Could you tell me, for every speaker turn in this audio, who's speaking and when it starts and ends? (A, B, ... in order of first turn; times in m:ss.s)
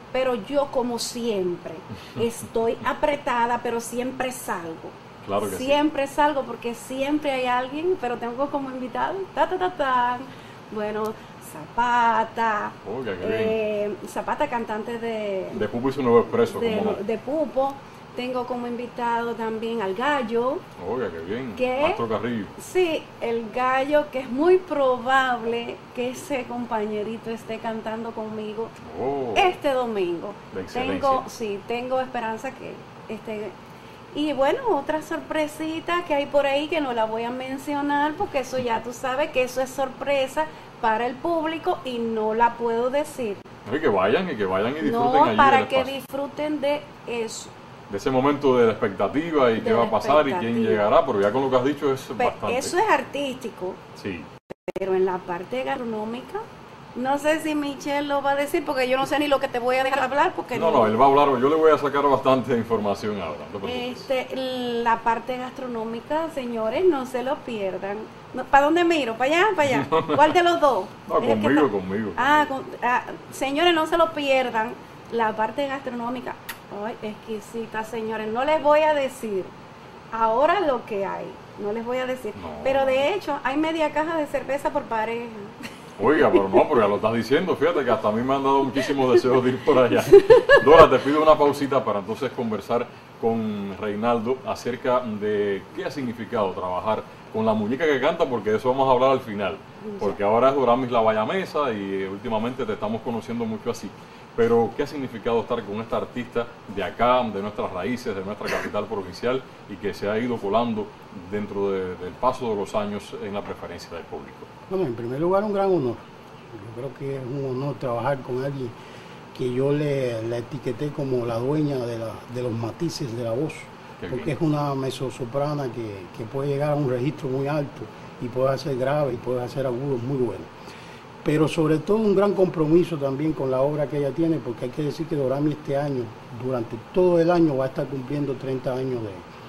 0:00.1-0:15.7 A
0:05.2-0:05.8 B
0:12.8-0:13.6 B
0:15.5-0:17.0 B
0:16.4-0:20.6 A
0:20.8-0:22.5 B
0:21.6-0:22.0 A
0:22.6-0:28.7 A
0:28.8-0:29.6 B
0:29.4-0:33.6 A
0:30.5-0:31.2 B
0:34.1-0:43.5 A
0:43.7-0:45.9 B
0:44.8-0:47.5 A
0:47.9-0:52.7 B
0:49.6-0:50.9 A
0:52.2-0:53.8 A
0:54.0-0:54.3 B
0:54.7-0:56.4 A
0:57.0-1:01.0 A
1:00.5-1:04.1 B
1:03.6-1:19.5 A
1:09.6-1:10.3 B
1:11.1-1:12.5 B
1:20.1-1:25.6 A
1:22.4-1:23.1 B
1:26.0-1:54.5 B
1:26.2-1:26.6 A
1:30.1-1:30.6 A
1:39.8-1:40.2 A
1:54.7-1:58.7 C
1:59.3-2:10.5 C
2:04.0-2:04.4 B
2:11.2-2:19.3 C